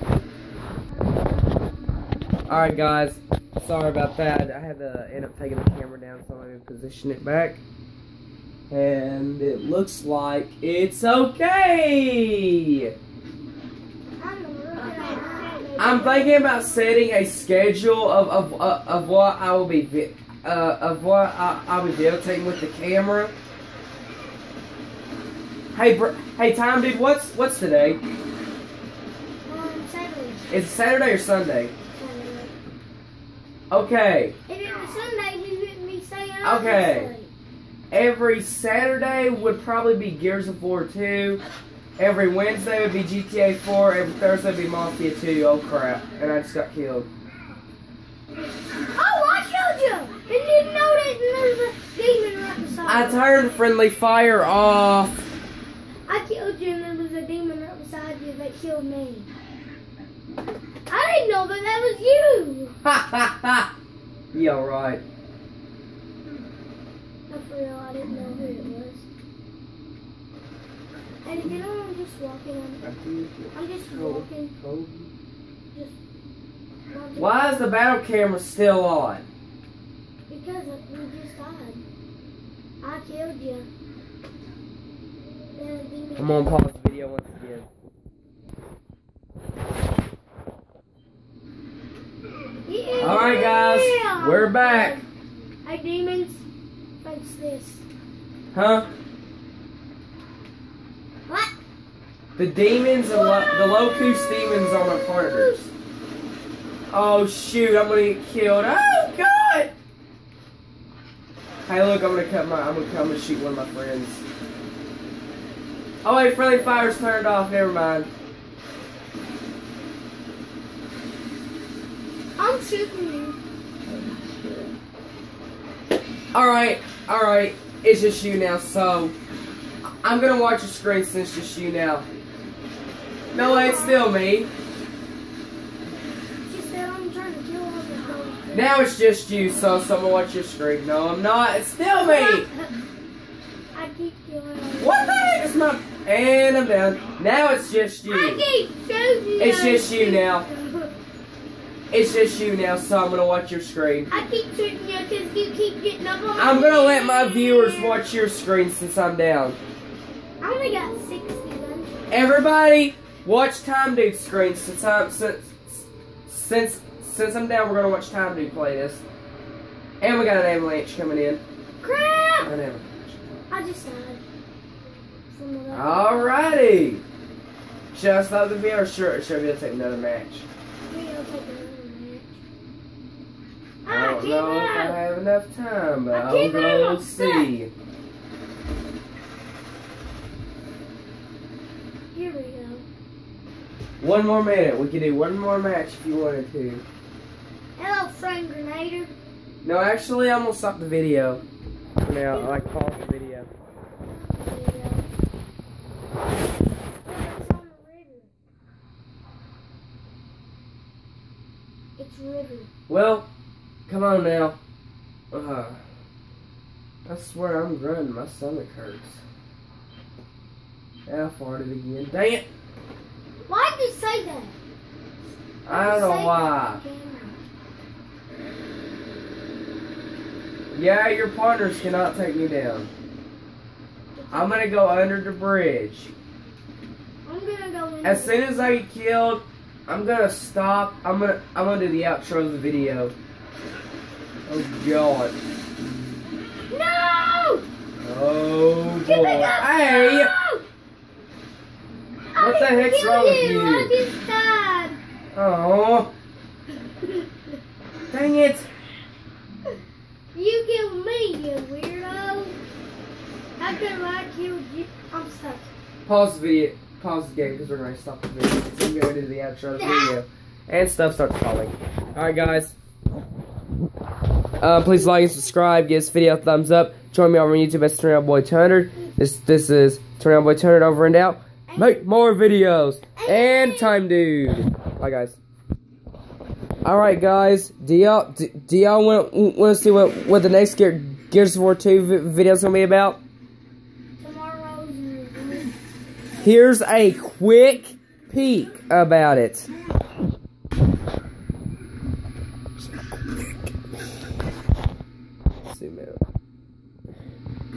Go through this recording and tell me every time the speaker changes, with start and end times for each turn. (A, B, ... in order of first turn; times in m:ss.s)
0:01.1-0:01.7 A
0:02.5-0:07.6 B
0:08.7-0:12.9 B
0:14.2-0:17.0 A
0:15.8-0:23.3 B
0:25.7-0:28.0 B
0:29.5-0:30.5 A
0:30.5-0:31.7 B
0:32.0-0:32.5 A
0:33.7-0:34.4 B
0:34.5-0:37.3 A
0:36.4-0:37.1 B
0:37.9-0:41.4 B
0:42.0-0:47.1 B
0:48.9-0:53.2 A
0:52.9-0:55.3 B
0:56.1-0:59.3 A
1:00.9-1:02.8 A
1:02.8-1:03.7 B
1:04.3-1:05.0 B
1:07.3-1:09.1 A
1:11.2-1:12.9 A
1:12.8-1:15.1 B
1:13.5-1:14.6 A
1:15.7-1:16.0 A
1:16.9-1:17.7 A
1:17.2-1:19.3 B
1:20.3-1:21.9 A
1:22.8-1:23.7 A
1:25.6-1:26.6 A
1:26.2-1:27.7 B
1:32.7-1:35.0 A
1:33.0-1:35.0 B
1:35.6-1:36.5 A
1:37.0-1:37.9 A
1:38.5-1:38.9 B
1:41.3-1:41.5 A
1:42.4-1:45.5 B
1:43.0-1:45.7 A
1:46.9-1:49.7 B
1:51.7-1:54.2 B
1:56.0-1:58.1 B
2:02.4-2:03.4 A
2:06.3-2:09.1 B
2:10.0-2:12.1 B
2:13.3-2:14.1 A
2:13.3-2:14.5 B
2:16.5-2:18.8 A
2:18.5-2:22.5 B
2:22.0-2:22.7 A
2:23.7-2:25.5 A
2:24.8-2:28.4 B
2:28.1-2:30.9 A
2:29.4-2:30.5 B
2:31.9-2:34.1 B
2:34.1-2:38.0 A
2:36.4-2:39.6 B
2:40.4-2:42.1 A
2:42.1-2:49.1 B
2:50.0-2:51.4 B
2:51.8-2:52.5 A
2:52.4-2:53.2 B
2:53.5-2:54.2 A
2:55.3-2:56.3 A
2:55.7-2:57.0 B
2:57.9-3:00.5 B
3:00.9-3:02.4 A
3:03.8-3:05.0 A
3:03.9-3:07.7 B
3:06.1-3:07.5 A
3:12.1-3:12.9 A
3:14.0-3:16.8 B
3:17.8-3:19.1 A
3:19.6-3:21.4 B
3:22.0-3:23.5 B
3:22.3-3:23.1 A
3:24.0-3:25.1 A
3:27.0-3:28.3 A
3:32.0-3:32.7 A
3:32.9-3:33.3 B
3:33.9-3:34.6 B
3:35.3-3:35.8 B
3:37.1-3:39.2 B
3:41.1-3:42.4 B
3:43.5-3:44.6 A
3:45.6-3:46.8 B
3:45.7-3:47.4 A
3:50.7-3:52.9 B
3:54.2-3:54.7 A
3:54.3-3:56.1 B
3:57.2-3:58.8 A
3:58.0-4:03.1 B
4:04.5-4:05.4 B
4:06.7-4:07.6 A
4:08.0-4:10.3 B
4:09.0-4:10.6 A
4:12.4-4:15.0 A
4:12.4-4:13.9 B
4:15.3-4:16.1 B
4:17.0-4:17.3 A
4:18.1-4:18.7 B
4:20.3-4:22.6 A
4:23.6-4:25.7 A
4:26.1-4:32.8 B
4:29.8-4:30.2 A
4:34.6-4:45.4 B
4:41.7-4:42.0 A
4:43.2-4:44.0 A
4:46.8-4:53.2 B
4:54.2-4:55.8 A
4:56.4-4:59.7 B
5:05.7-5:06.2 B